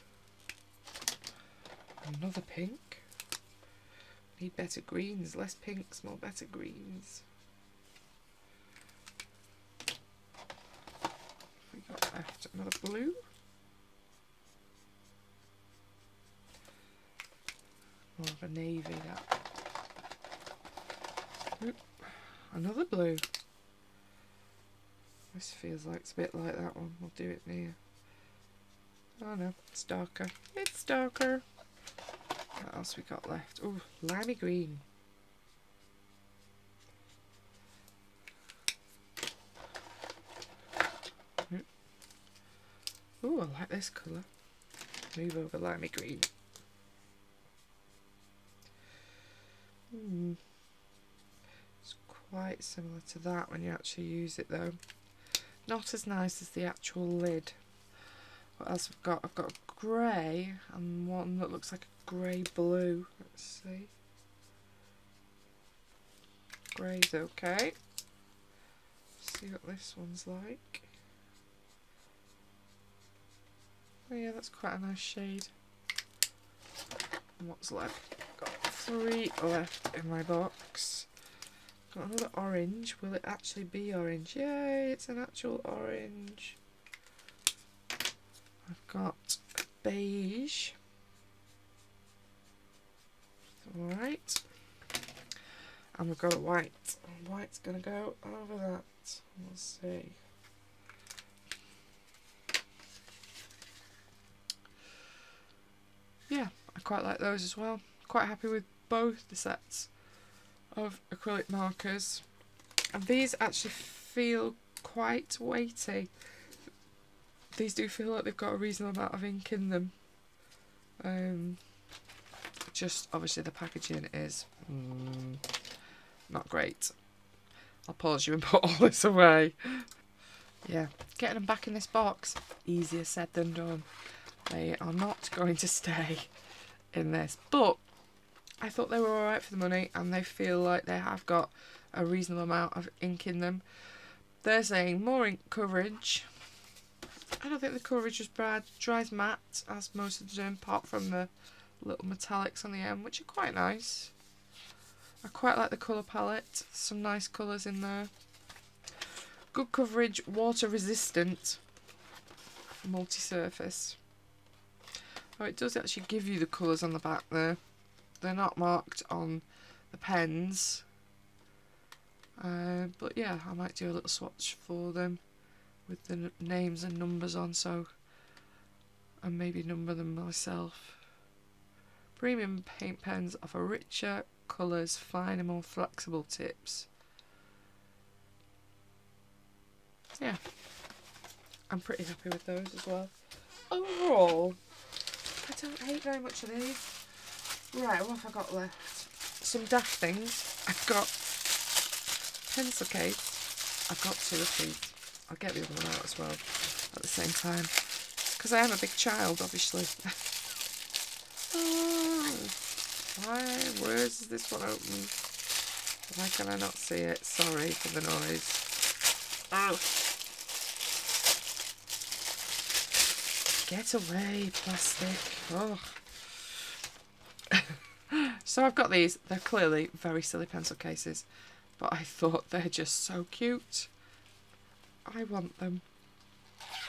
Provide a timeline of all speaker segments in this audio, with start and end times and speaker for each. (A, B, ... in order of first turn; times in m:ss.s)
0:02.0-0:03.0 A
0:04.4-0:07.2 A
0:11.7-0:13.2 A
0:18.2-0:19.3 A
0:21.6-0:23.2 A
0:25.3-0:27.8 A
0:29.2-0:31.4 A
0:32.6-0:34.8 A
0:43.2-0:44.3 A
0:45.1-0:46.3 A
0:49.9-0:50.4 A
0:51.8-0:54.8 A
0:55.6-0:57.6 A
0:58.6-1:03.9 A
1:06.7-1:07.8 A
1:09.2-1:10.9 A
1:14.1-1:15.5 A
1:17.4-1:21.1 A
1:21.9-1:26.6 A
1:28.6-1:30.8 A
1:33.6-1:34.4 A
1:35.9-1:40.2 A
1:46.3-1:49.9 A
1:50.7-1:52.2 A
1:52.9-1:56.1 A
1:57.5-1:59.9 A
2:01.0-2:01.6 A
2:02.7-2:05.4 A
2:06.3-2:06.9 A
2:07.8-2:09.9 A
2:10.6-2:13.9 A
2:14.5-2:16.3 A
2:16.9-2:17.8 A
2:18.6-2:23.6 A
2:24.4-2:26.3 A
2:27.4-2:34.1 A
2:35.2-2:38.1 A
2:39.5-2:41.6 A
2:42.8-2:44.0 A
2:45.4-2:47.6 A
2:48.2-2:50.8 A
2:52.4-2:55.2 A
2:55.9-2:57.9 A
2:59.2-3:01.0 A
3:02.2-3:06.9 A
3:11.7-3:13.1 A
3:13.7-3:14.6 A
3:15.4-3:17.0 A
3:17.7-3:21.2 A
3:22.5-3:27.8 A
3:28.3-3:30.2 A
3:31.5-3:32.6 A
3:33.2-3:35.1 A
3:36.1-3:38.6 A
3:39.5-3:39.9 A
3:43.6-3:46.0 A
3:47.5-3:51.2 A
3:51.8-3:53.9 A
3:55.0-3:55.8 A